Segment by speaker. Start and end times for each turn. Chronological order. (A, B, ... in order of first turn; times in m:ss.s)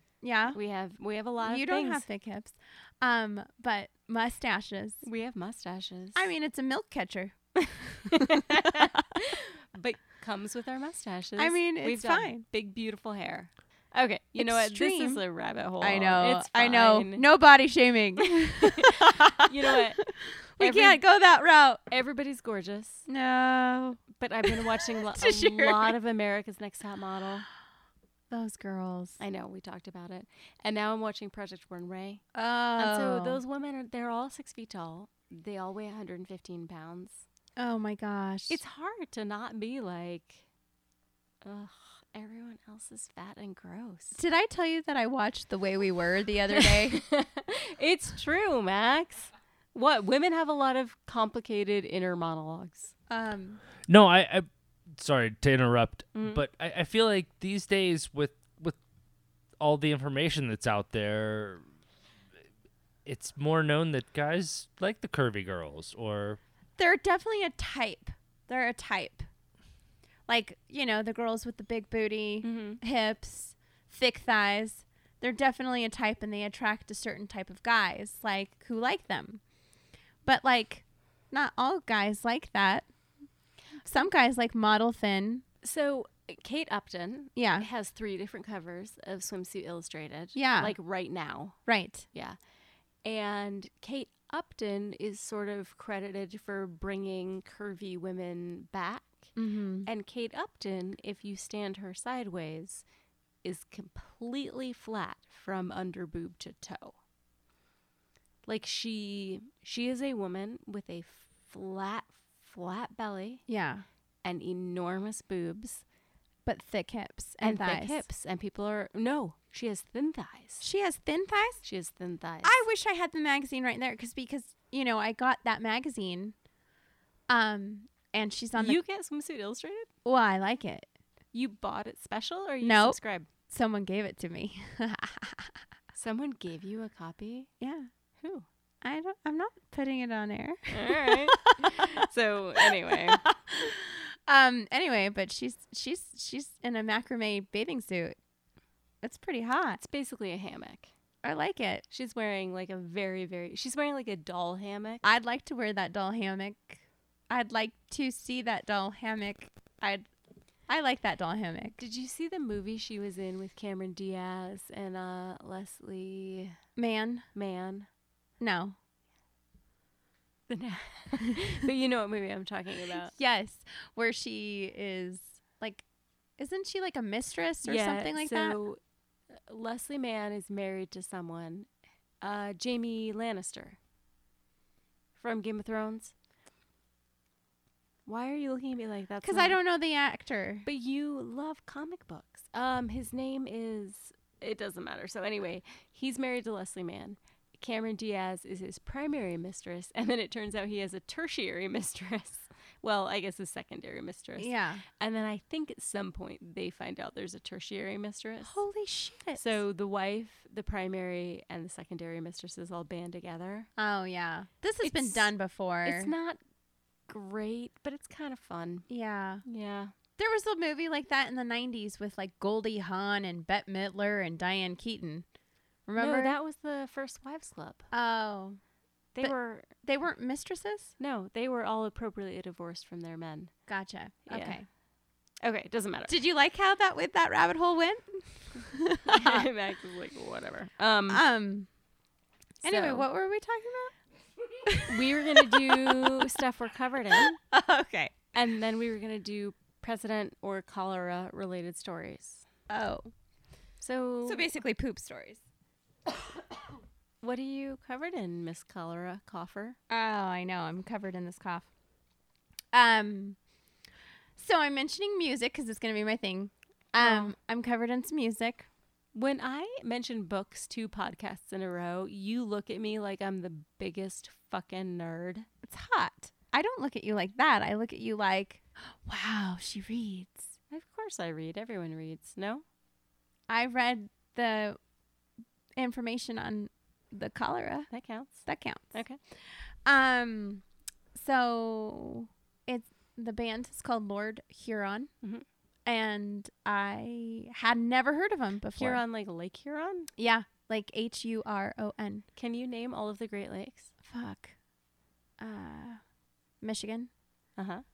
0:00.2-0:00.6 A
0:00.5-0:02.0 B
0:01.4-0:05.0 A
0:05.0-0:06.3 B
0:06.1-0:07.4 A
0:07.6-0:17.3 B
0:08.1-0:09.0 A
0:11.4-0:12.4 A
0:14.4-0:15.2 A
0:15.8-0:21.8 A
0:18.4-0:21.0 B
0:21.9-0:23.0 B
0:23.1-0:25.9 A
0:24.2-0:27.5 B
0:28.3-0:29.2 A
0:29.2-0:32.2 B
0:32.3-0:33.4 A
0:32.8-0:37.2 B
0:37.6-0:38.6 A
0:38.5-0:40.4 B
0:41.4-0:44.2 B
0:44.1-0:47.0 A
0:46.5-0:52.9 B
0:53.1-0:53.6 A
0:53.9-0:58.8 C
0:56.1-0:56.4 B
0:59.6-1:01.6 C
1:03.0-1:06.4 C
1:06.8-1:09.3 A
1:10.3-1:19.4 A
1:12.4-1:12.8 B
1:20.2-1:22.9 A
1:23.8-1:25.4 A
1:25.6-1:31.6 B
1:27.4-1:27.7 A
1:30.3-1:30.8 A
1:31.6-1:32.0 A
1:33.0-1:39.3 B
1:39.4-1:39.9 A
1:39.8-1:42.8 B
1:43.4-1:46.9 B
1:48.4-1:53.4 B
1:53.5-1:53.8 A
1:54.2-1:55.8 B
1:56.4-1:58.1 A
1:57.4-2:00.6 B
2:00.6-2:01.6 A
2:01.6-2:02.5 B
2:02.4-2:06.3 A
2:07.3-2:08.8 A
2:08.6-2:09.9 B
2:10.0-2:10.9 A
2:11.3-2:13.3 B
2:12.6-2:13.0 A
2:13.5-2:15.5 A
2:15.9-2:17.5 B
2:17.6-2:17.9 A
2:18.2-2:18.4 B
2:18.8-2:22.0 A
2:20.7-2:23.2 B
2:22.6-2:28.2 A
2:29.0-2:29.8 A
2:29.8-2:30.9 B
2:31.2-2:31.8 A
2:31.9-2:35.0 B
2:35.0-2:40.1 A
2:40.7-2:41.8 A
2:41.8-2:46.6 B
2:46.8-2:47.2 A
2:47.3-2:47.9 B
2:48.4-2:48.8 A
2:50.5-2:53.1 B
2:53.1-2:55.8 A
2:56.4-2:58.6 A
2:57.6-2:58.8 B
2:59.5-3:01.7 B
3:02.2-3:03.8 B
3:05.2-3:06.1 B
3:08.0-3:09.6 B
3:09.2-3:10.6 A
3:10.6-3:28.6 B
3:24.4-3:24.8 A
3:28.4-3:29.6 A
3:29.4-3:33.7 B
3:33.8-3:36.1 A
3:34.8-3:35.3 B
3:35.8-3:36.4 B
3:37.1-3:38.9 B
3:38.9-3:39.4 A
3:39.4-3:39.9 B
3:40.2-3:45.2 A
3:45.9-3:46.3 A
3:46.0-3:47.9 B
3:47.9-3:48.6 A
3:49.1-3:49.7 B
3:49.2-3:50.9 A
3:51.0-3:53.5 B
3:53.7-3:54.6 A
3:54.3-3:54.6 B
3:55.4-3:56.2 B
3:56.1-3:59.5 A
3:59.1-4:01.2 B
4:01.1-4:01.7 A
4:02.6-4:03.9 A
4:02.6-4:03.0 B
4:04.6-4:06.3 A
4:04.9-4:07.4 B
4:07.2-4:08.2 A
4:08.3-4:12.4 B
4:12.7-4:13.1 A
4:13.8-4:14.5 B
4:14.2-4:15.4 A
4:17.2-4:19.8 B
4:19.9-4:21.6 A
4:22.7-4:23.4 A
4:24.4-4:28.7 A
4:27.0-4:27.3 B
4:29.1-4:35.5 B
4:35.6-4:40.5 A
4:40.7-4:42.6 B
4:43.5-4:44.8 A
4:45.8-4:47.9 A
4:47.9-4:49.2 B
4:48.4-4:49.0 A
4:49.8-4:50.6 A
4:51.1-4:55.1 A
4:55.8-4:59.0 A
4:58.8-5:00.1 B
5:00.2-5:02.2 A
5:02.4-5:03.9 B
5:04.0-5:04.5 A
5:05.4-5:06.0 A
5:06.6-5:07.1 A
5:07.6-5:07.8 B